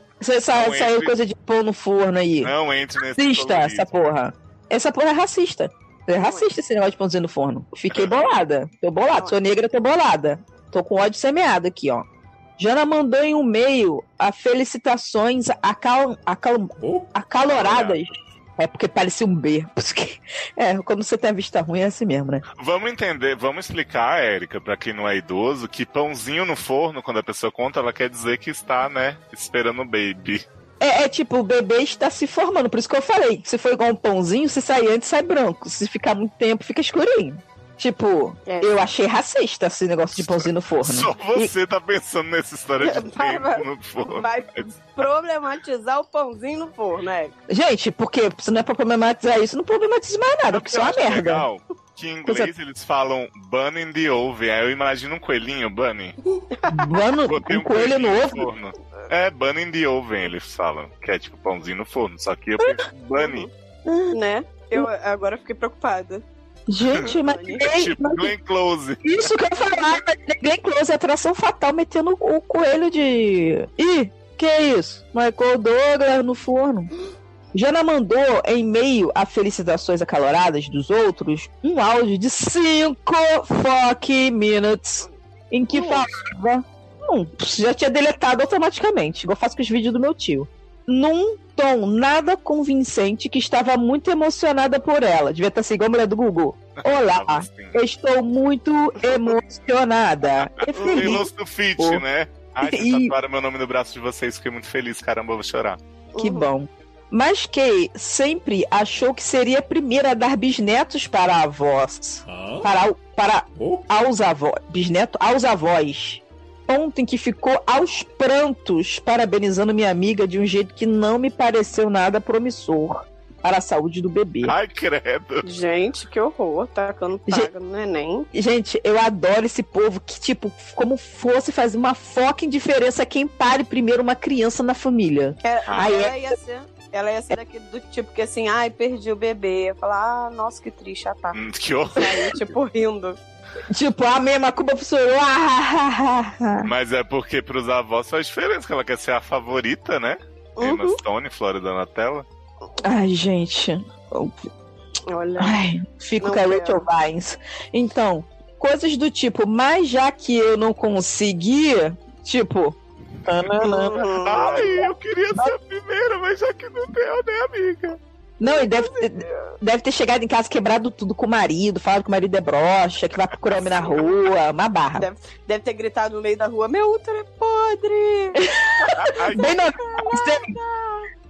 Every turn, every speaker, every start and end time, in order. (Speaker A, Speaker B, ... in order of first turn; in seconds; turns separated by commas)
Speaker A: 0.2-2.5, Speaker B: 0.5-1.1, Speaker B: 2.4-3.9, Speaker A: 3.1-12.0, Speaker C: 6.2-6.5, Speaker B: 7.9-8.2, Speaker A: 12.6-22.4, Speaker B: 17.5-18.1, Speaker B: 22.6-30.4, Speaker A: 30.8-41.5, Speaker C: 38.5-38.7, Speaker B: 40.3-44.6, Speaker C: 42.8-47.4, Speaker A: 47.5-51.5, Speaker B: 50.5-56.1, Speaker A: 52.2-52.5, Speaker C: 56.5-56.9, Speaker A: 56.7-58.5, Speaker B: 57.3-63.5, Speaker C: 62.6-66.2, Speaker A: 66.7-68.3, Speaker C: 66.9-67.7, Speaker B: 67.6-69.2, Speaker A: 69.0-76.9, Speaker A: 77.5-102.0, Speaker C: 85.7-86.1, Speaker B: 96.8-97.8, Speaker B: 100.4-105.8, Speaker C: 100.8-101.2, Speaker A: 102.6-103.1, Speaker C: 106.1-106.5, Speaker A: 106.2-124.5, Speaker B: 124.4-125.4, Speaker C: 125.4-128.3, Speaker A: 128.3-136.2, Speaker C: 135.4-141.4, Speaker B: 141.3-142.4, Speaker C: 141.9-143.2, Speaker A: 143.7-146.7, Speaker B: 146.6-152.2, Speaker C: 150.6-151.0, Speaker A: 152.8-154.4, Speaker C: 155.1-155.6, Speaker A: 155.4-162.8, Speaker C: 156.2-156.8, Speaker A: 163.3-164.1, Speaker C: 163.4-164.9, Speaker B: 164.1-168.0, Speaker A: 168.4-175.1, Speaker C: 168.4-169.5, Speaker C: 173.5-174.1, Speaker C: 174.9-181.1, Speaker B: 178.9-179.4, Speaker A: 179.2-180.5